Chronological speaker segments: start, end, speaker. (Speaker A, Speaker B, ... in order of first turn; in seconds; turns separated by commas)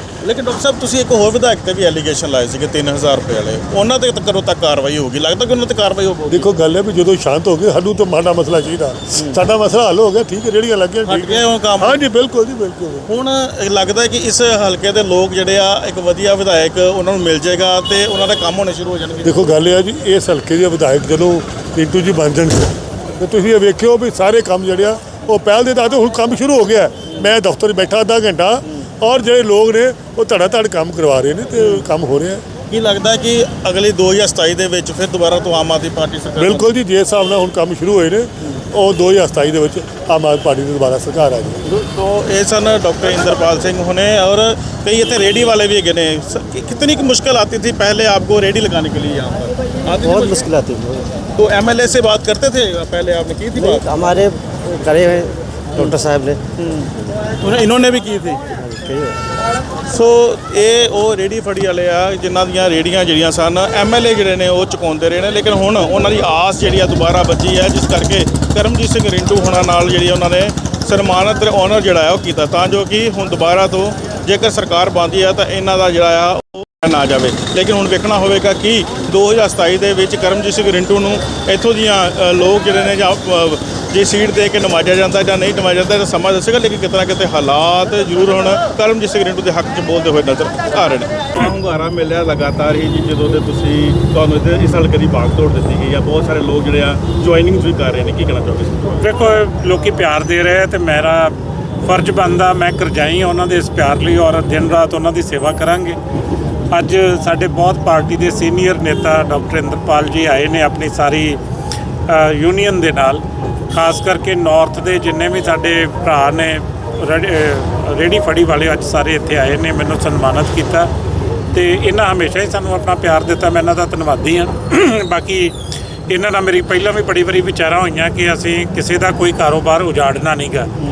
Speaker A: 0.2-6.5, Speaker B: 6.3-13.1, Speaker A: 11.0-12.0, Speaker A: 13.1-19.5, Speaker B: 19.2-32.4, Speaker A: 31.6-31.8, Speaker A: 32.7-36.7, Speaker B: 36.4-41.6, Speaker A: 41.6-50.5, Speaker C: 50.0-51.2, Speaker A: 51.3-53.9, Speaker C: 53.7-56.4, Speaker A: 56.6-58.5, Speaker C: 58.6-59.2, Speaker A: 59.9-99.0, Speaker D: 98.9-101.3, Speaker D: 101.8-106.0, Speaker D: 106.7-111.4, Speaker D: 112.1-120.9, Speaker D: 121.5-125.5, Speaker D: 126.1-130.7